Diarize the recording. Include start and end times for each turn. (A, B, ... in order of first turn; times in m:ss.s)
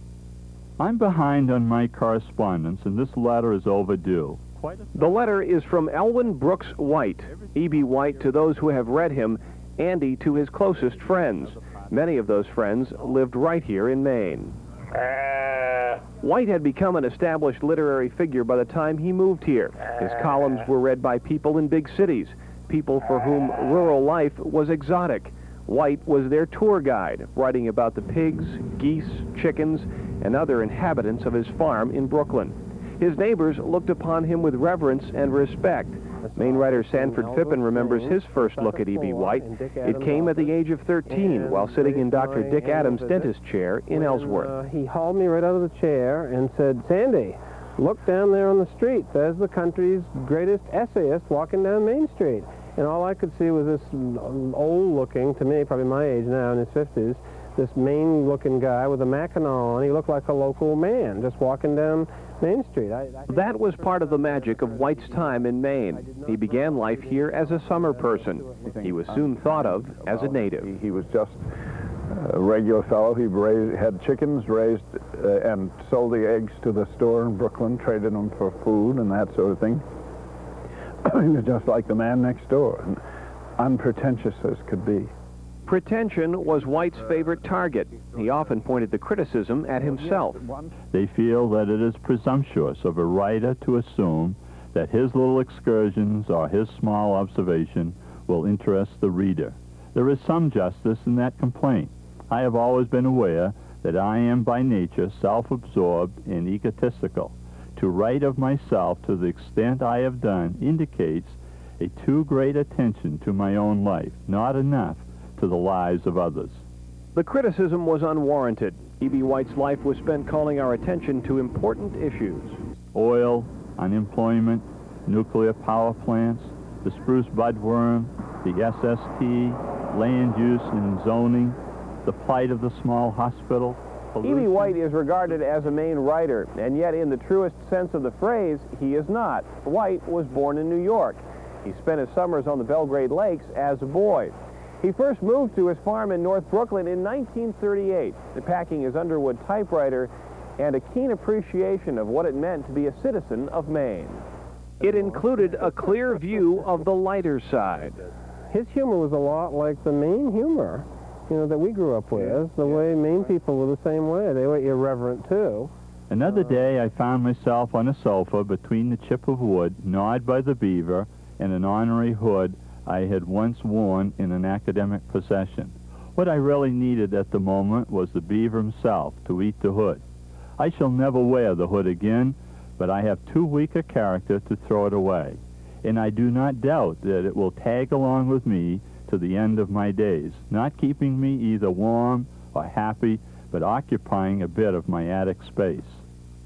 0:00.8-0:09.2 A
0:05.0-0:14.5 B
0:10.7-0:12.6 A
0:16.1-0:44.5 B
0:36.2-0:43.3 C
0:43.9-1:09.1 C
1:03.3-1:10.7 B
1:08.6-1:11.4 D
1:12.1-1:19.8 D
1:21.0-1:23.0 D
1:23.6-1:25.1 D
1:25.7-1:30.4 B
1:29.8-1:30.7 D
1:30.9-1:56.6 A
1:57.1-2:02.6 B
2:02.9-2:14.8 A
2:14.2-2:34.2 B
2:34.8-2:38.0 B
2:38.5-2:45.7 C
2:46.1-3:00.0 A
3:00.6-3:16.0 A